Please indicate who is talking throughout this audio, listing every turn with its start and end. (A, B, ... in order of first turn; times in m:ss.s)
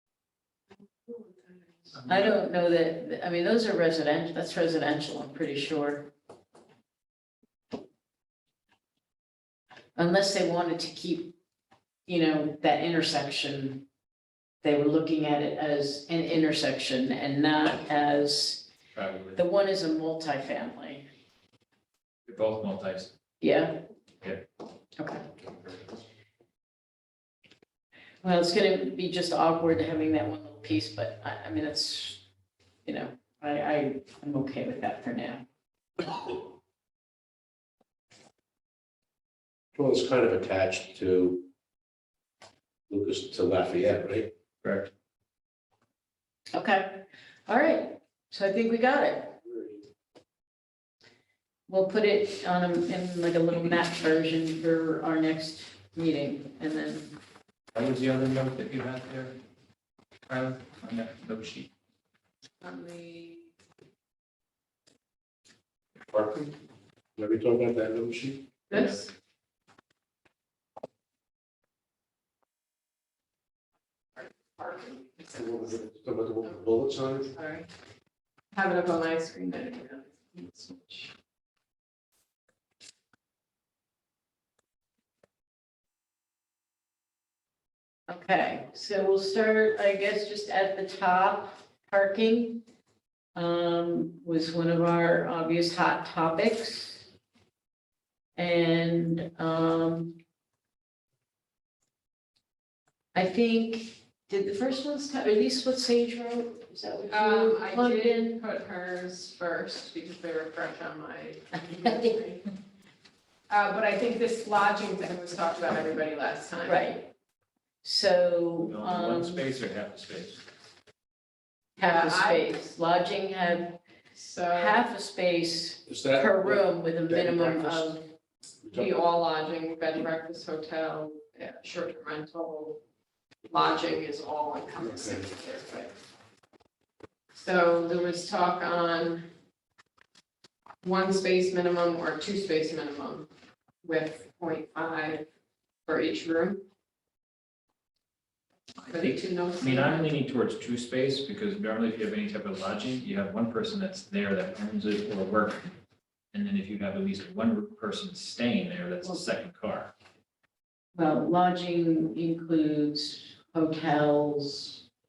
0:00.9-0:02.0 A
0:01.9-0:02.4 B
0:02.0-0:06.1 C
0:10.0-0:11.3 C
0:12.1-0:13.8 C
0:14.6-0:18.7 C
0:18.9-0:19.4 B
0:19.4-0:21.1 C
0:22.3-0:23.1 B
0:23.4-0:23.8 C
0:25.0-0:25.4 C
0:28.2-0:32.2 C
0:32.8-0:35.4 C
0:36.0-0:36.4 C
0:39.7-0:41.5 D
0:42.9-0:44.3 D
0:44.6-0:44.9 B
0:46.5-0:49.4 C
0:49.4-0:49.8 D
0:51.7-0:57.2 C
0:57.8-0:59.4 B
1:00.3-1:01.7 B
1:02.6-1:03.5 A
1:06.1-1:06.6 D
1:07.2-1:08.5 D
1:08.7-1:09.1 A
1:08.7-1:09.0 B
1:14.2-1:15.8 A
1:15.4-1:17.3 D
1:17.3-1:17.7 A
1:18.5-1:21.1 A
1:28.1-1:32.6 C
1:33.4-1:37.1 C
1:38.4-1:40.1 C
1:43.1-1:48.4 C
1:47.1-1:52.5 A
1:51.8-1:52.2 C
1:53.5-1:57.1 A
1:56.6-1:57.0 C
1:57.8-1:59.5 C
1:58.6-2:00.4 B
2:01.8-2:03.8 C
2:01.8-2:02.8 A
2:04.2-2:04.9 A
2:04.5-2:08.1 C
2:05.9-2:08.0 D
2:08.6-2:08.9 D
2:08.7-2:12.8 A
2:13.5-2:15.9 A
2:14.8-2:15.3 D
2:17.4-2:19.3 A
2:20.8-2:23.3 A
2:23.8-2:25.3 A
2:25.9-2:26.6 A
2:28.8-2:35.7 B
2:28.9-2:30.1 A
2:36.3-2:39.9 B
2:41.0-2:44.8 C